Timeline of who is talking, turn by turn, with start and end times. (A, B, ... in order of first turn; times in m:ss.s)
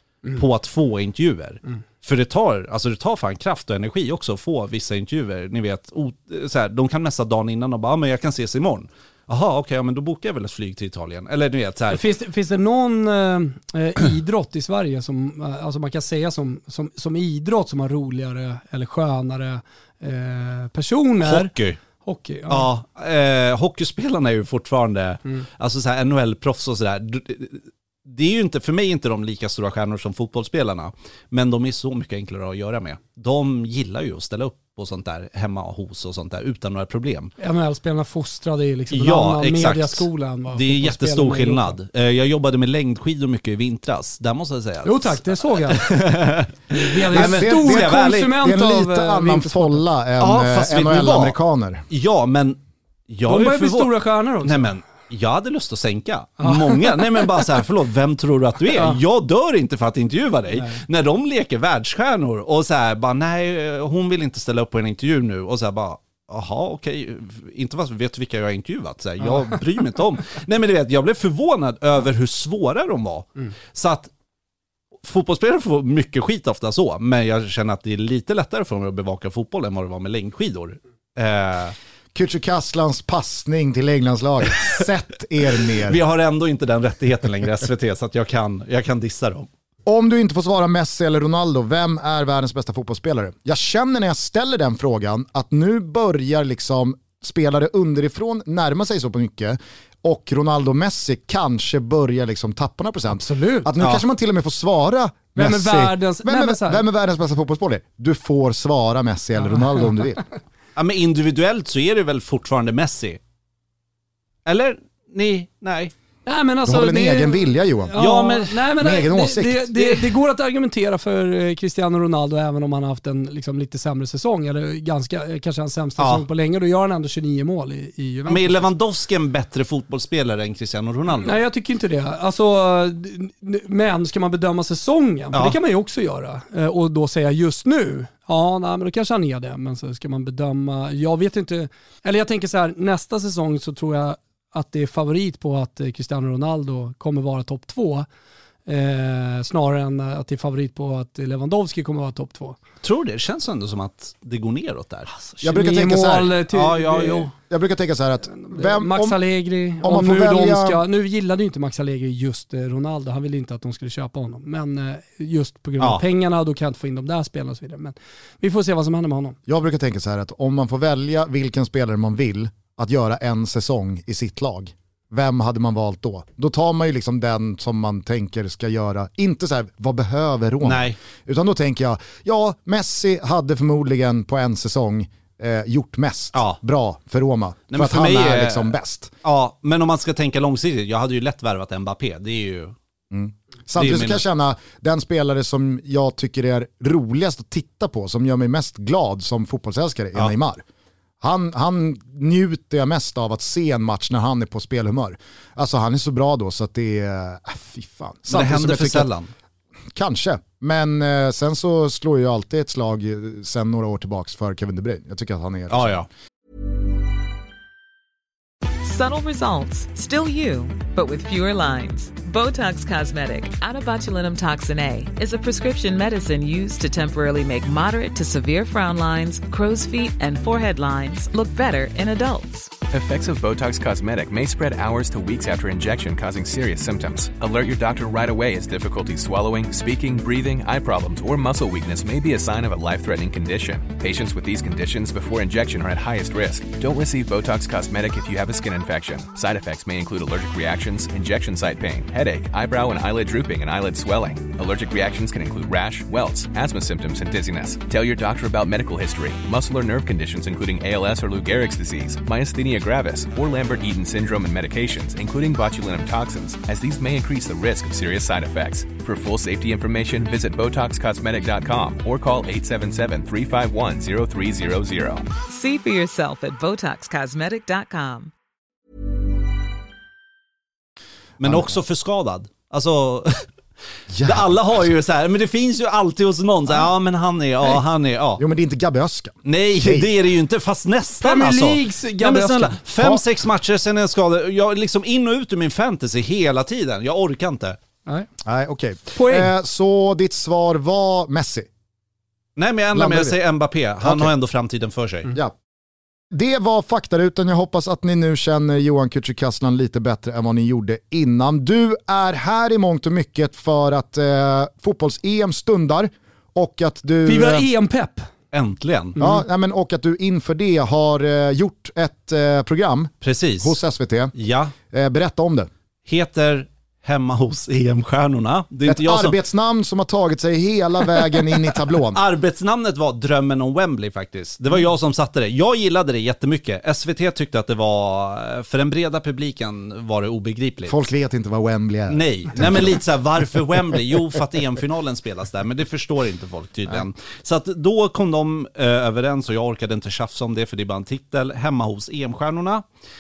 0:00.4-0:12.0 A
0:11.9-0:21.5 B
0:21.2-0:21.8 A
0:22.0-0:22.7 B
0:22.5-0:37.3 A
0:37.4-0:41.7 B
0:38.9-0:46.5 A
0:44.8-0:45.9 B
0:46.7-0:49.8 B
0:47.0-0:48.3 A
0:47.1-0:51.8 C
0:50.2-0:51.4 A
0:51.9-1:14.1 A
0:53.3-0:54.7 B
0:56.4-0:57.4 B
1:09.2-1:09.5 B
1:15.0-1:21.8 A
1:22.2-1:26.0 C
1:25.8-1:29.5 A
1:29.9-1:50.2 C
1:43.2-1:43.7 B
1:45.4-1:46.8 B
1:49.4-1:49.9 B
1:50.8-1:53.2 A
1:54.5-1:55.9 A
1:56.3-2:08.6 B
1:56.6-1:58.0 C
1:58.0-1:58.6 A
1:58.8-1:59.9 C
2:06.0-2:06.2 A
2:08.3-2:11.4 A
2:11.2-2:28.1 B
2:28.7-2:32.6 B
2:32.8-2:35.1 A
2:35.2-2:37.3 B
2:35.4-2:36.3 C
2:36.5-2:37.3 A
2:37.5-2:39.2 C
2:38.4-2:49.4 B
2:39.8-2:40.8 C
2:49.5-3:09.1 C
3:00.6-3:01.0 A
3:07.7-3:12.8 A
3:13.1-3:20.6 C
3:13.8-3:14.2 A
3:21.2-3:29.1 C
3:28.3-3:29.3 A
3:29.9-3:36.0 C
3:35.7-3:36.1 A
3:38.8-3:52.7 D
3:52.9-4:35.3 E
4:35.4-4:38.3 D
4:41.4-4:43.5 A
4:41.4-4:41.8 C
4:44.1-4:44.5 C
4:44.2-4:48.4 A
4:48.4-4:50.1 C
4:49.4-4:57.8 A
4:51.2-4:52.8 B
4:58.4-5:01.7 C
4:59.2-4:59.5 B
5:02.6-5:05.3 A
5:02.9-5:03.4 C
5:04.0-5:04.3 C
5:06.3-5:17.7 C
5:17.2-5:18.3 B
5:18.5-5:19.2 A
5:19.2-5:19.4 B
5:19.2-5:24.3 C
5:23.2-5:23.8 A
5:24.4-5:24.7 A
5:24.9-5:25.7 C
5:26.1-5:29.3 A
5:28.9-5:32.2 C
5:32.1-5:41.0 A
5:40.9-5:43.0 C
5:42.1-5:52.8 A